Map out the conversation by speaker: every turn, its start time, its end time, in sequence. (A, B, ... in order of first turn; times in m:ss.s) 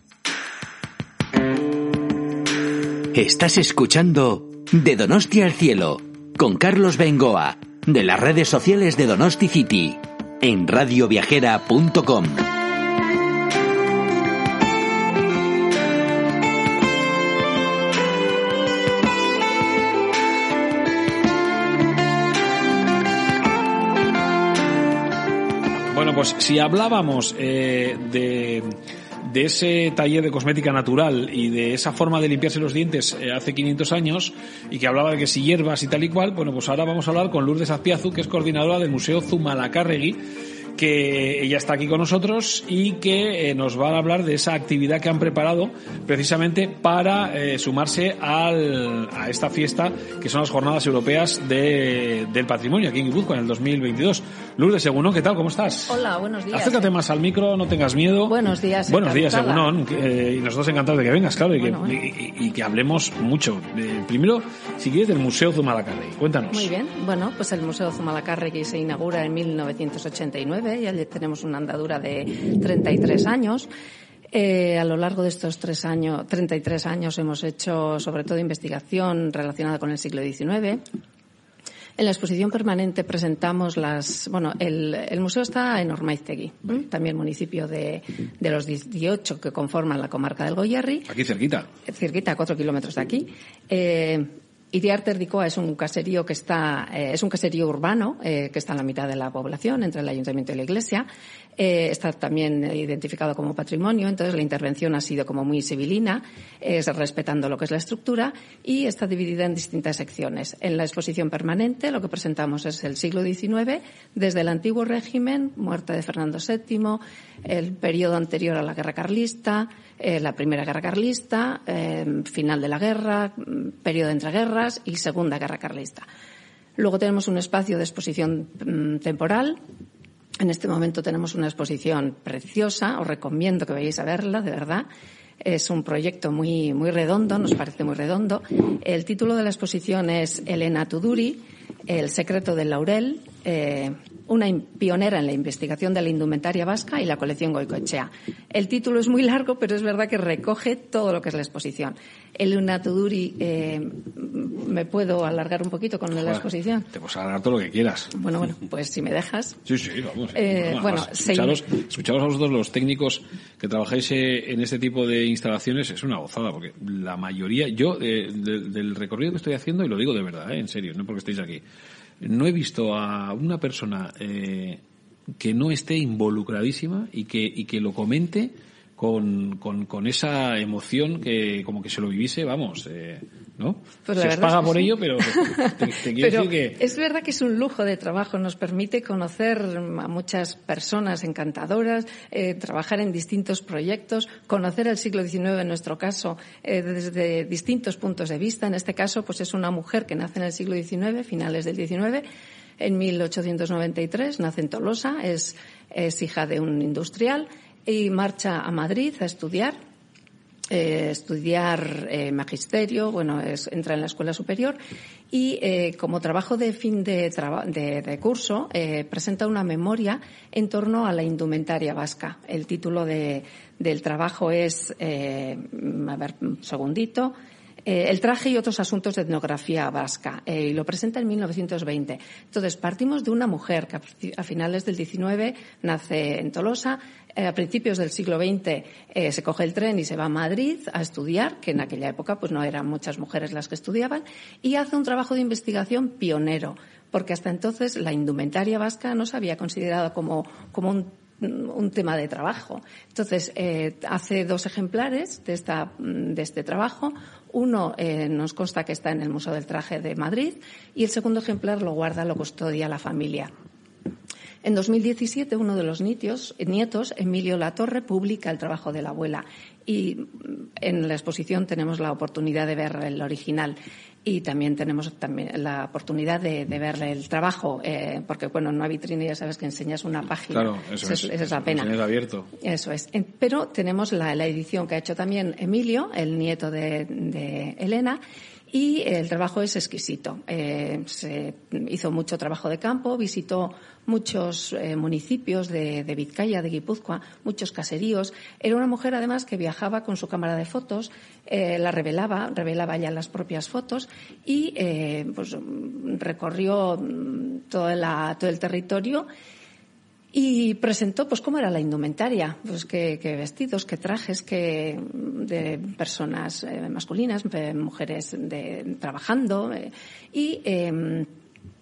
0:03.1-0:12.4 A
0:25.9-0:28.7 B
0:29.2-0:40.2 B
0:40.8-0:56.0 B
0:55.9-0:56.9 C
0:56.5-0:58.4 B
0:58.3-0:59.7 C
0:58.9-1:06.7 B
1:01.6-1:02.0 C
1:06.5-1:13.7 C
1:14.3-1:20.8 C
1:22.0-1:31.1 C
1:31.1-1:31.7 B
1:31.9-1:41.1 C
1:41.6-2:06.1 C
2:06.8-2:09.6 C
2:10.4-2:14.9 C
2:15.4-2:36.9 C
2:36.2-2:38.1 B
2:38.1-2:39.6 C
2:39.7-2:51.6 B
2:40.4-2:41.6 C
2:52.2-2:54.8 B
2:55.4-3:06.8 B
3:04.1-3:22.2 C
3:22.8-3:29.8 C
3:30.7-3:34.8 C
3:35.3-4:23.5 C
4:24.6-4:41.9 C
4:40.5-4:42.5 B
4:42.6-4:48.2 C
4:48.7-5:09.3 C
5:10.3-5:21.3 C